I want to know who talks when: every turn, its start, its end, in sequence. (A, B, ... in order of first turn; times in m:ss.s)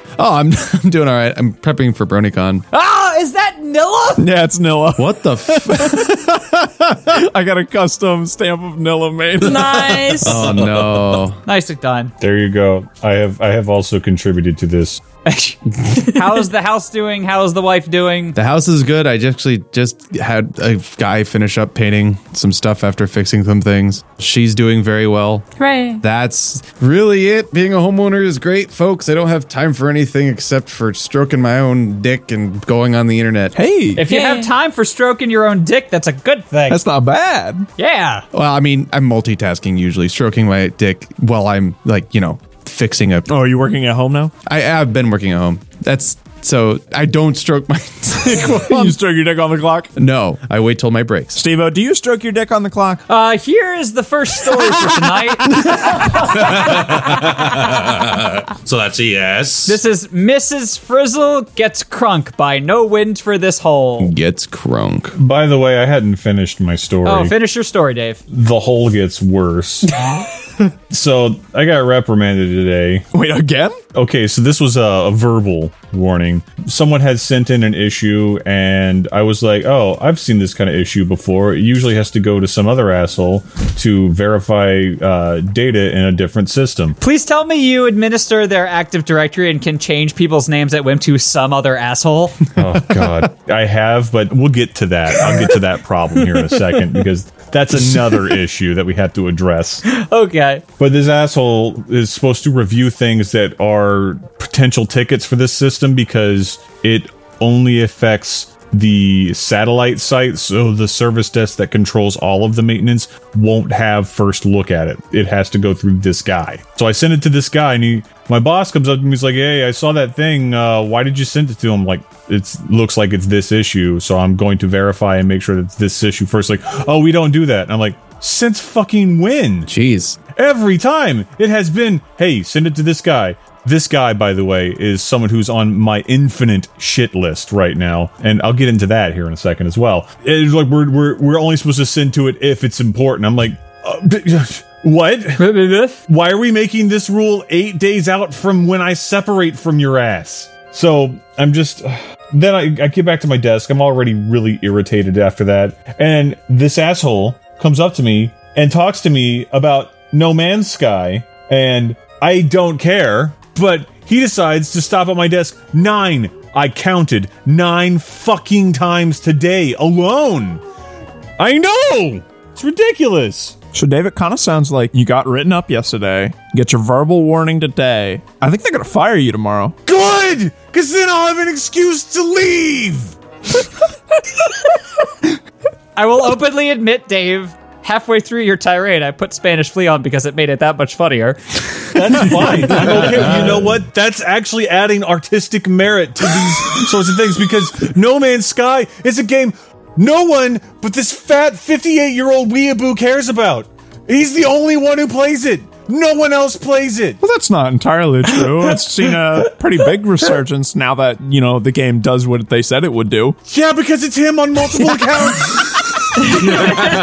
0:00.2-0:02.6 A
0:02.7-0:04.3 B
0:04.2-0:10.5 C
0:05.0-0:06.2 A
0:09.4-0:10.5 D
0:10.2-0:11.4 A
0:11.4-0:12.1 B
0:12.2-0:15.0 E
0:15.3-0:18.4 B
0:18.4-0:25.5 A
0:25.6-0:26.0 D
0:26.0-0:33.6 A
0:33.6-0:34.0 C
0:34.0-0:36.8 B
0:34.0-0:34.5 D
0:36.7-0:37.7 C
0:37.8-0:38.2 B
0:38.3-0:43.3 A
0:43.3-0:44.3 C
0:44.5-0:49.0 A
0:48.2-0:49.9 C
0:50.0-0:51.4 A
0:51.4-0:53.0 C
0:53.1-0:56.1 B
0:56.3-0:59.8 F
0:59.7-1:04.1 B
1:04.0-1:05.1 A
1:05.2-1:07.3 E
1:07.0-1:08.2 B
1:08.3-1:09.9 E
1:10.9-1:13.1 E
1:13.1-1:13.8 C
1:13.9-1:27.0 E
1:27.0-1:32.4 B
1:32.6-1:39.8 E
1:39.9-1:40.6 B
1:40.8-2:09.7 E
2:09.7-2:10.2 A
2:10.4-2:50.6 E
2:25.4-2:26.0 B
2:51.4-2:53.6 E
2:53.7-2:59.8 C
2:59.9-3:03.2 E
3:06.0-3:11.6 B
3:11.9-3:27.2 E
3:27.2-3:33.4 C
3:33.5-3:35.8 E